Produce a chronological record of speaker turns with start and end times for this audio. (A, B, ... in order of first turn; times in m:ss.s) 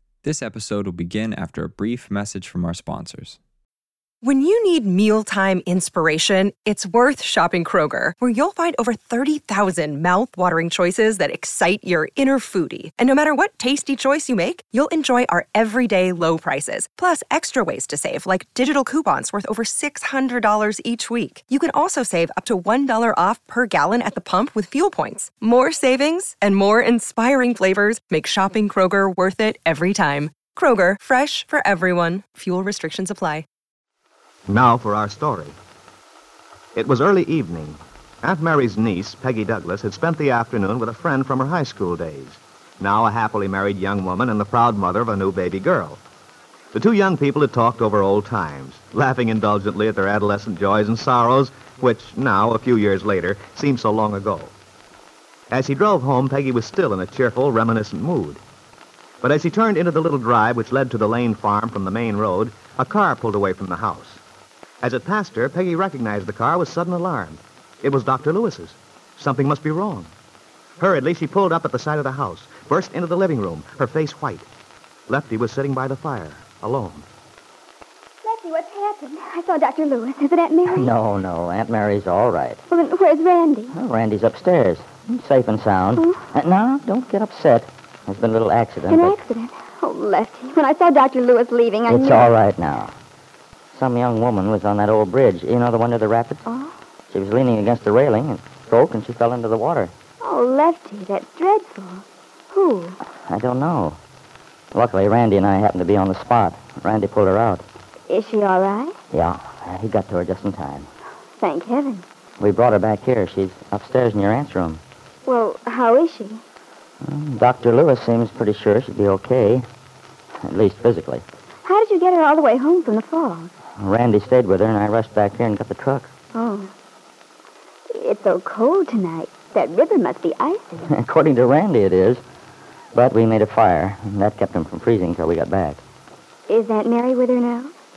0:00.2-0:03.4 A
0:04.2-0:33.4 B
0:34.5-0:35.6 C
0:36.8-0:46.0 C
0:46.7-0:54.5 C
0:55.5-0:58.4 C
0:59.2-1:04.2 C
1:04.8-1:10.1 C
1:10.8-1:14.5 C
1:15.1-1:17.1 C
1:18.2-1:20.9 D
1:20.7-1:22.6 E
1:22.7-1:23.8 D
1:23.7-1:29.2 E
1:28.9-1:32.3 D
1:31.9-1:32.9 E
1:33.7-1:36.4 E
1:36.5-1:36.7 D
1:37.1-1:39.9 E
1:40.2-1:43.0 D
1:43.3-1:44.0 E
1:44.7-1:47.7 E
1:48.1-1:49.0 D
1:49.1-1:50.9 E
1:51.4-1:52.0 D
1:52.4-1:54.8 E
1:55.2-1:56.4 D
1:57.0-1:59.6 E
2:00.4-2:01.2 E
2:01.6-2:03.5 D
2:03.8-2:06.1 E
2:06.3-2:06.7 D
2:07.9-2:10.9 D
2:10.9-2:12.2 E
2:12.9-2:15.8 E
2:16.5-2:17.7 D